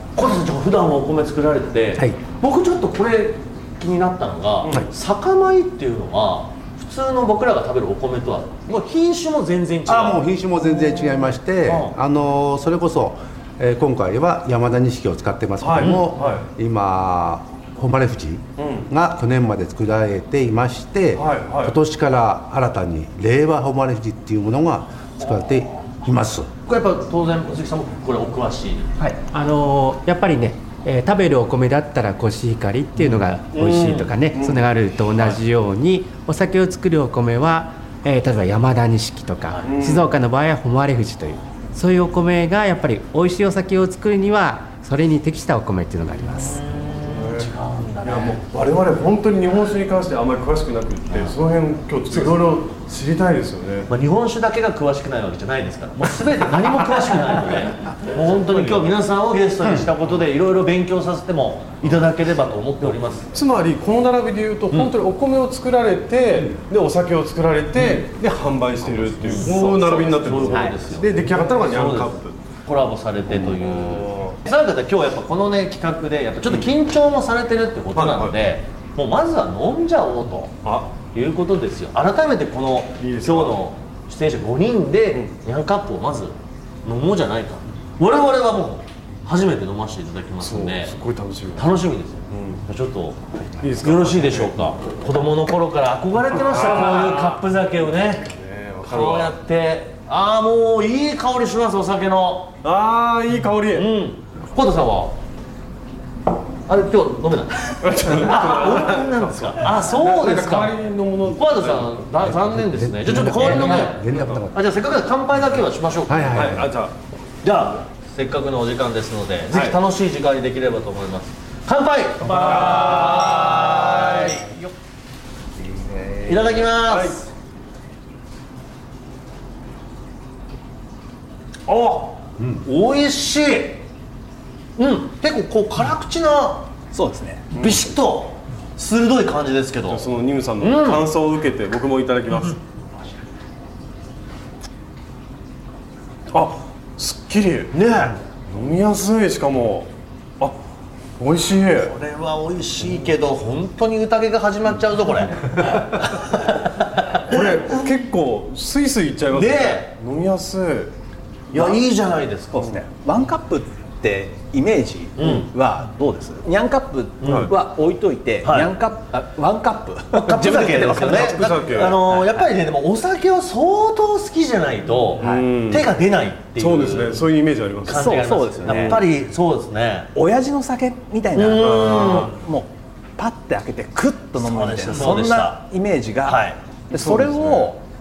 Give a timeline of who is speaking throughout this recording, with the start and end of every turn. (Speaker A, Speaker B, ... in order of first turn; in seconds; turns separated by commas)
Speaker A: 0.1-10.2, Speaker B: 9.8-26.5, Speaker A: 11.6-11.9, Speaker C: 15.6-16.4, Speaker A: 15.8-16.2, Speaker C: 18.6-18.9, Speaker C: 21.1-21.8, Speaker A: 25.2-25.5, Speaker A: 26.6-28.9, Speaker D: 29.0-46.6, Speaker A: 33.5-34.2, Speaker C: 34.3-34.6, Speaker C: 39.6-40.1, Speaker A: 46.5-48.4, Speaker C: 47.0-53.9, Speaker A: 51.1-51.4, Speaker A: 53.9-63.3, Speaker C: 58.5-58.9, Speaker C: 63.3-72.4, Speaker A: 69.2-86.3, Speaker E: 69.4-70.8, Speaker C: 73.3-74.4, Speaker C: 77.9-78.4, Speaker C: 80.6-81.0, Speaker C: 83.0-83.6, Speaker A: 86.8-91.0, Speaker C: 90.4-91.7, Speaker A: 91.5-98.2, Speaker C: 92.3-92.6, Speaker C: 93.6-94.6, Speaker C: 96.3-99.4, Speaker A: 98.8-102.5, Speaker C: 102.6-103.9, Speaker A: 103.7-105.2, Speaker A: 106.7-116.7, Speaker C: 107.8-112.4, Speaker B: 112.6-114.6, Speaker B: 116.1-116.7, Speaker C: 116.3-116.9, Speaker A: 117.4-124.6, Speaker C: 119.5-119.8, Speaker C: 122.2-124.5, Speaker B: 125.6-126.2, Speaker A: 126.2-127.2, Speaker C: 126.8-127.2, Speaker A: 131.7-133.8, Speaker A: 134.8-136.7, Speaker E: 136.9-137.5, Speaker A: 137.5-140.1, Speaker C: 139.9-142.6, Speaker A: 140.6-141.1, Speaker C: 146.3-147.8, Speaker A: 147.7-148.2, Speaker C: 148.5-150.6, Speaker C: 151.2-151.9, Speaker A: 151.8-157.5, Speaker C: 157.2-160.9, Speaker A: 159.3-159.9, Speaker A: 161.5-162.7, Speaker E: 162.6-172.5, Speaker A: 165.2-165.5, Speaker A: 167.2-167.5, Speaker C: 167.2-167.5, Speaker A: 168.4-168.7, Speaker A: 170.1-177.3, Speaker C: 171.1-172.0, Speaker E: 175.2-175.5, Speaker C: 175.2-175.9, Speaker C: 176.6-179.0, Speaker A: 177.8-180.1, Speaker E: 177.9-179.0, Speaker E: 180.1-187.8, Speaker A: 181.3-182.3, Speaker C: 181.6-182.3, Speaker A: 184.4-185.7, Speaker A: 186.2-186.6, Speaker C: 186.9-187.7